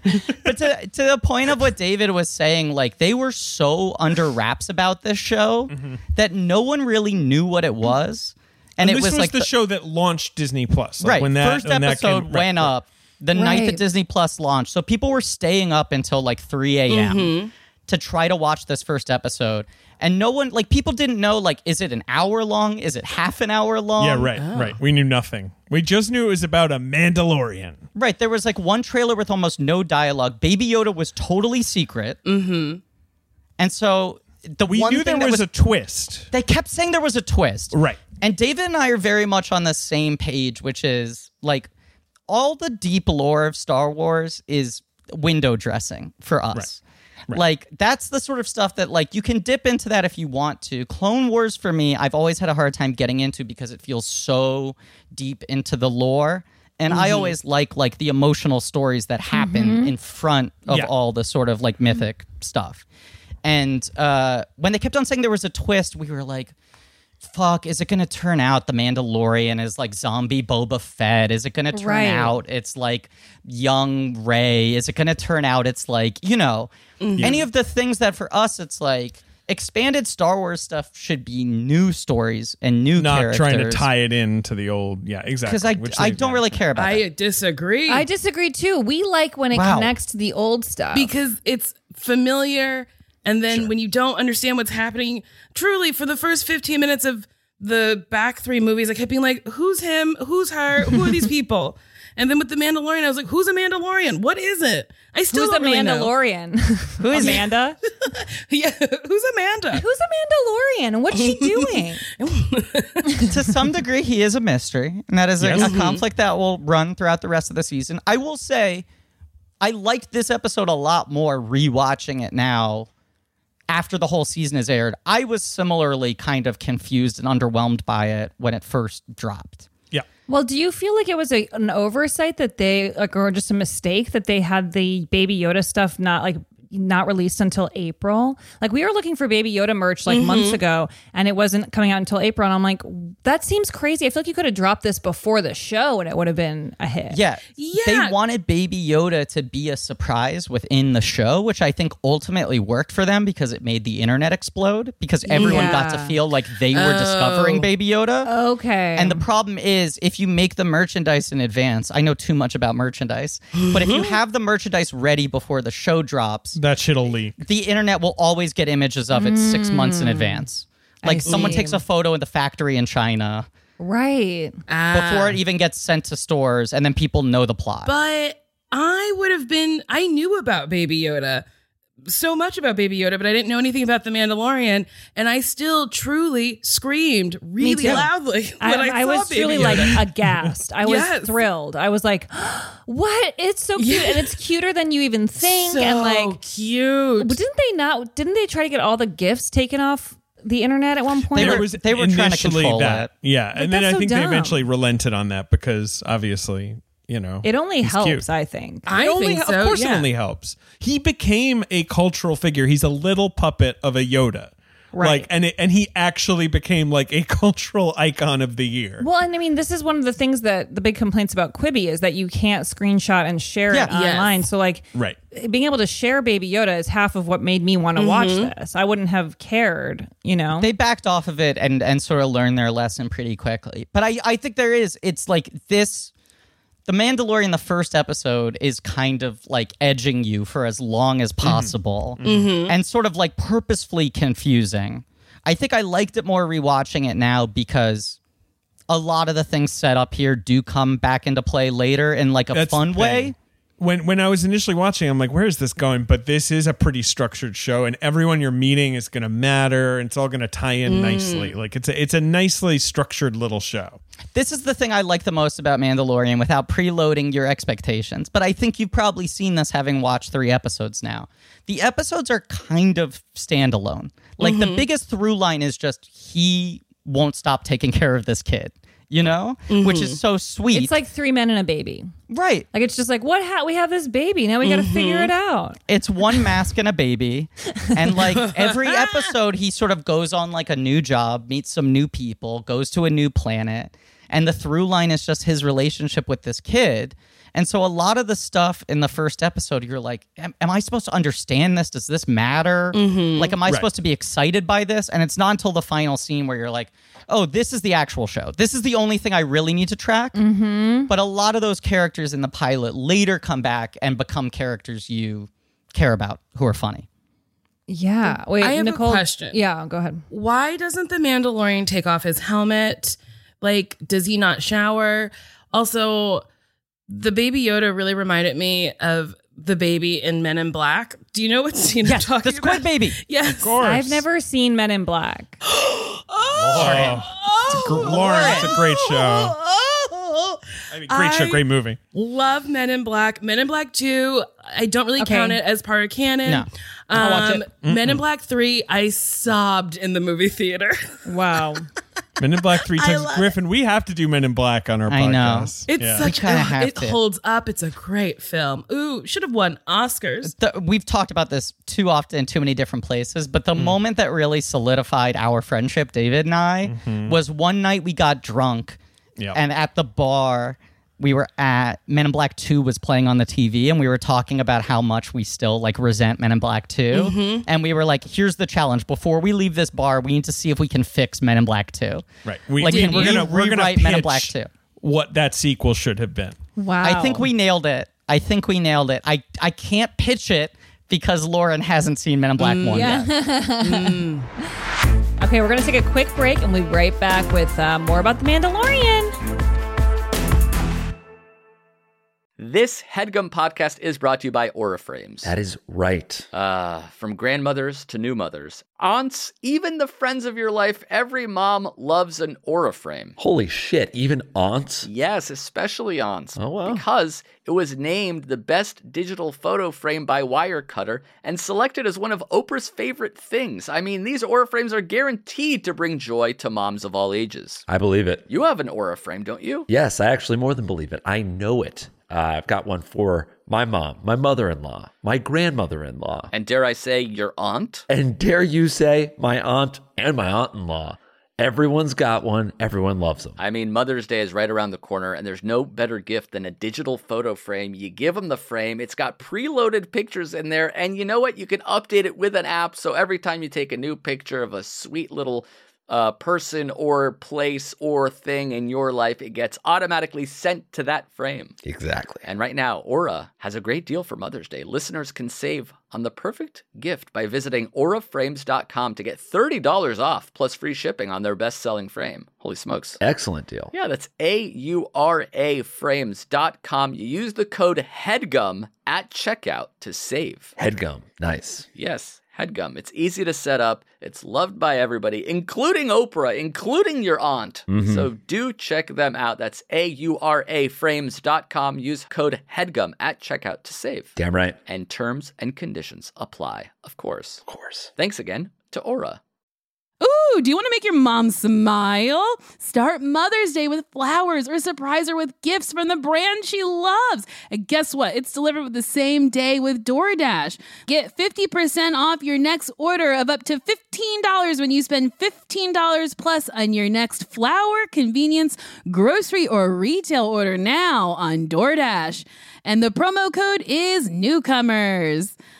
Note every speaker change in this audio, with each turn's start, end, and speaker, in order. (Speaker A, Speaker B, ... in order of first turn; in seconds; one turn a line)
Speaker A: 0.4-9.5
Speaker B: 5.7-6.0
Speaker B: 8.8-12.7
Speaker A: 11.0-17.3
Speaker C: 13.3-13.8
Speaker D: 16.9-17.5
Speaker A: 17.9-24.3
Speaker B: 24.0-27.8
Speaker D: 24.4-24.8
Speaker A: 27.9-32.2
Speaker D: 32.2-32.8
Speaker A: 33.6-35.5
Speaker B: 34.6-36.3
Speaker A: 36.3-41.7
Speaker B: 37.7-38.0
Speaker A: 42.3-62.8
Speaker D: 56.9-57.3
Speaker C: 59.3-59.9
Speaker A: 63.4-66.5
Speaker A: 67.2-83.9
Speaker C: 71.7-72.3
Speaker D: 77.0-77.4
Speaker B: 83.0-86.5
Speaker A: 85.4-87.0
Speaker D: 86.8-88.0
Speaker C: 87.9-91.1
Speaker A: 89.5-89.9
Speaker D: 90.9-106.1
Speaker C: 105.3-107.8
Speaker A: 107.0-107.5
Speaker D: 107.1-109.8
Speaker C: 109.7-112.0
Speaker D: 111.1-113.2
Speaker A: 113.2-118.8
Speaker B: 115.4-115.7
Speaker D: 115.5-116.0
Speaker A: 119.6-122.9
Speaker A: 123.7-129.7
Speaker C: 130.3-147.2
Speaker D: 140.1-140.6
Speaker A: 147.1-158.3
Speaker D: 147.6-148.2
Speaker C: 155.3-156.2
Speaker D: 155.3-155.8
Speaker D: 156.7-157.7
Speaker C: 158.2-159.2
Speaker A: 158.9-166.6
Speaker D: 163.5-164.2
Speaker B: 166.5-167.3
Speaker A: 167.4-173.5
Speaker C: 169.1-170.4
Speaker C: 171.0-171.8
Speaker D: 171.2-171.6
Speaker C: 173.8-174.6
Speaker D: 174.7-175.4
Speaker A: 174.9-177.9
Speaker D: 177.8-181.4
Speaker D: 182.0-190.1
Speaker C: 187.6-188.1
Speaker C: 188.6-196.4
Speaker B: 189.5-189.9
Speaker D: 190.8-191.4
Speaker D: 193.8-194.4
Speaker D: 195.4-197.4
Speaker C: 197.2-201.7
Speaker A: 201.3-203.1
Speaker B: 201.3-208.2
Speaker C: 203.6-204.6
Speaker C: 207.4-208.8
Speaker D: 208.8-210.1
Speaker B: 208.9-219.0
Speaker C: 214.9-215.3
Speaker C: 219.0-230.7
Speaker D: 223.9-224.4
Speaker D: 227.9-228.5
Speaker A: 230.6-236.1
Speaker A: 236.9-248.2
Speaker B: 241.4-242.5
Speaker D: 242.2-242.8
Speaker A: 248.9-253.3
Speaker B: 252.5-264.0
Speaker D: 260.9-261.5
Speaker A: 264.3-280.9
Speaker D: 274.4-274.9
Speaker D: 279.7-280.2
Speaker C: 280.7-282.1
Speaker A: 282.3-282.7
Speaker C: 282.7-285.8
Speaker D: 284.6-285.3
Speaker A: 285.9-310.4
Speaker D: 288.2-289.3
Speaker D: 302.9-303.6
Speaker C: 310.3-311.1
Speaker A: 311.1-317.1
Speaker C: 317.9-320.2
Speaker D: 318.3-319.6
Speaker D: 320.3-326.4
Speaker D: 327.1-333.8
Speaker A: 332.0-333.2
Speaker B: 333.6-334.2
Speaker C: 333.8-335.6
Speaker D: 335.7-341.6
Speaker B: 336.6-339.5
Speaker A: 336.7-338.7
Speaker B: 340.9-342.0
Speaker D: 342.1-351.2
Speaker C: 345.2-345.6
Speaker C: 347.1-347.6
Speaker B: 347.8-348.2
Speaker C: 351.2-351.9
Speaker B: 352.4-356.2
Speaker D: 352.7-353.6
Speaker A: 355.1-357.2
Speaker D: 355.9-360.5
Speaker A: 360.4-369.0
Speaker B: 366.8-367.4
Speaker A: 369.5-384.7
Speaker D: 377.1-377.6
Speaker B: 382.4-386.6
Speaker D: 382.8-383.5
Speaker C: 386.8-387.5
Speaker A: 387.0-393.3
Speaker D: 392.6-394.5
Speaker C: 392.9-394.3
Speaker C: 395.4-399.3
Speaker E: 402.6-405.5
Speaker F: 405.4-406.4
Speaker E: 406.5-413.3
Speaker F: 413.4-415.1
Speaker E: 415.0-427.8
Speaker F: 416.6-417.0
Speaker F: 427.9-428.4
Speaker E: 428.4-429.9
Speaker F: 429.9-436.5
Speaker E: 436.5-438.1
Speaker F: 438.1-443.6
Speaker E: 443.6-461.8
Speaker F: 461.8-462.4
Speaker E: 462.4-473.2
Speaker F: 473.2-473.9
Speaker E: 473.9-480.7
Speaker F: 480.8-481.9
Speaker E: 481.9-494.3
Speaker F: 487.9-488.2
Speaker F: 494.4-494.8
Speaker E: 494.9-497.6
Speaker F: 497.7-498.1
Speaker E: 498.1-499.4
Speaker G: 500.2-525.5